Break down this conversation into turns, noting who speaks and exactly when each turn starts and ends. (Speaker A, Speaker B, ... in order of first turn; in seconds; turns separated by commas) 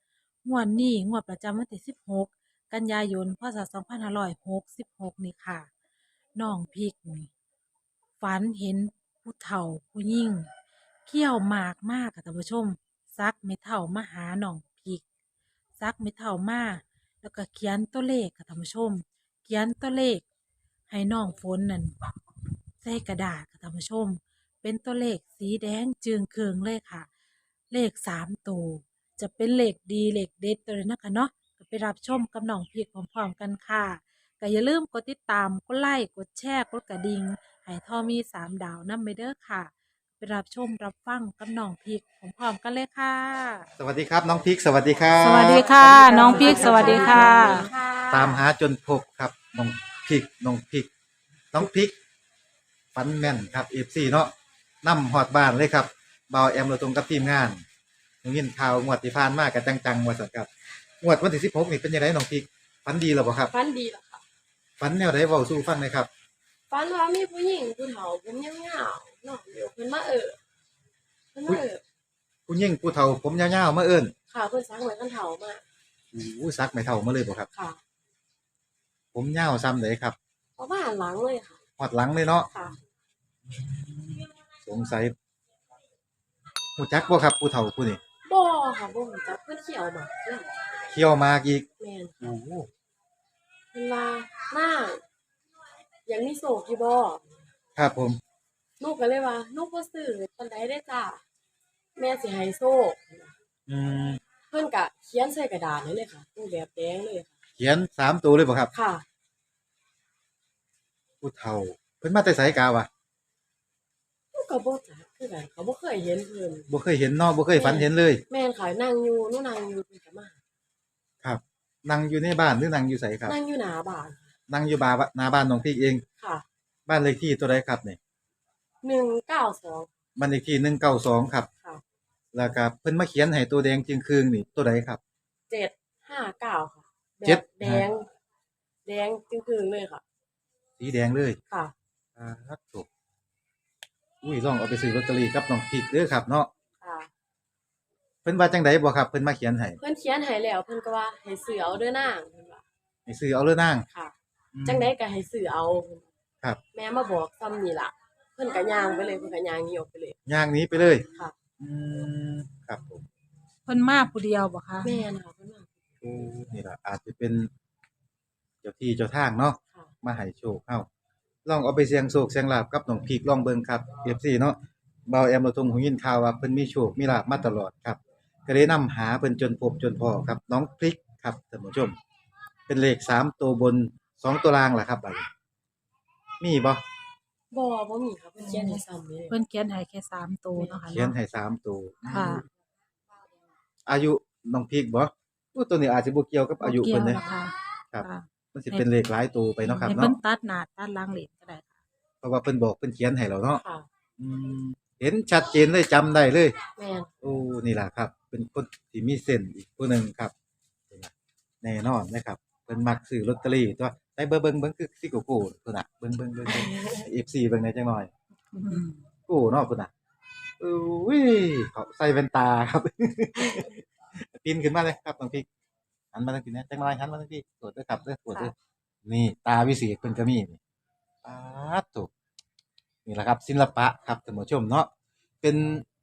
Speaker A: 0.4-5.7, Speaker A: 6.4-7.3, Speaker A: 8.2-10.5, Speaker A: 11.1-15.0, Speaker A: 15.8-20.2, Speaker A: 20.9-21.9, Speaker A: 22.8-27.1, Speaker A: 27.7-43.7, Speaker B: 43.8-45.9, Speaker A: 45.2-47.7, Speaker C: 45.6-48.3, Speaker B: 46.5-47.1, Speaker B: 48.1-50.9, Speaker B: 51.5-51.9, Speaker B: 53.0-54.3, Speaker B: 54.8-57.6, Speaker B: 58.2-60.5, Speaker B: 61.0-63.5, Speaker C: 63.5-64.2, Speaker B: 64.8-66.1, Speaker C: 66.7-70.4, Speaker C: 71.3-71.8, Speaker B: 72.5-74.1, Speaker C: 74.3-75.6, Speaker B: 76.1-77.5, Speaker C: 77.5-77.8, Speaker B: 79.1-80.1, Speaker C: 80.6-81.6, Speaker B: 81.8-82.5, Speaker B: 83.5-85.1, Speaker B: 86.8-88.0, Speaker C: 88.3-90.6, Speaker B: 90.9-91.6, Speaker C: 91.8-92.2, Speaker B: 92.2-92.7, Speaker C: 93.7-95.0, Speaker C: 96.1-97.5, Speaker B: 97.8-98.2, Speaker C: 98.8-101.2, Speaker C: 102.0-103.3, Speaker B: 103.7-104.2, Speaker C: 104.5-107.3, Speaker B: 107.6-108.7, Speaker C: 108.7-109.0, Speaker B: 111.2-112.9, Speaker C: 114.3-116.7, Speaker B: 116.7-118.2, Speaker C: 117.5-120.4, Speaker B: 121.2-123.3, Speaker C: 123.3-124.3, Speaker B: 124.5-126.0, Speaker C: 126.2-126.5, Speaker B: 126.9-128.0, Speaker C: 128.8-129.9, Speaker B: 130.2-131.5, Speaker B: 132.3-135.0, Speaker C: 135.5-138.1, Speaker B: 137.2-137.9, Speaker C: 138.8-140.0, Speaker B: 140.8-141.4, Speaker B: 142.2-142.8, Speaker B: 144.2-146.5, Speaker C: 146.8-147.1, Speaker B: 148.2-149.8, Speaker C: 149.8-152.6, Speaker B: 153.1-153.8, Speaker B: 154.5-154.9, Speaker C: 154.7-156.1, Speaker C: 156.7-160.2, Speaker B: 160.3-161.0, Speaker B: 161.6-163.0, Speaker A: 163.7-165.0, Speaker C: 164.8-165.7, Speaker B: 166.0-167.5, Speaker B: 168.6-170.9, Speaker B: 171.4-182.0, Speaker B: 182.7-185.3, Speaker B: 186.4-186.8, Speaker C: 187.5-189.3, Speaker A: 188.4-191.1, Speaker B: 190.9-192.4, Speaker A: 192.1-192.4, Speaker B: 193.9-197.2, Speaker A: 196.6-198.8, Speaker B: 197.9-200.1, Speaker A: 199.6-201.8, Speaker B: 202.2-203.6, Speaker C: 203.5-203.9, Speaker B: 204.2-206.5, Speaker C: 206.8-207.1, Speaker B: 207.2-210.3, Speaker B: 211.6-218.1, Speaker A: 218.5-218.9, Speaker B: 219.3-219.9, Speaker B: 220.6-223.8, Speaker B: 224.3-225.4, Speaker B: 226.1-228.5, Speaker B: 229.0-230.6, Speaker B: 231.2-232.1, Speaker B: 233.1-234.9, Speaker B: 235.4-235.8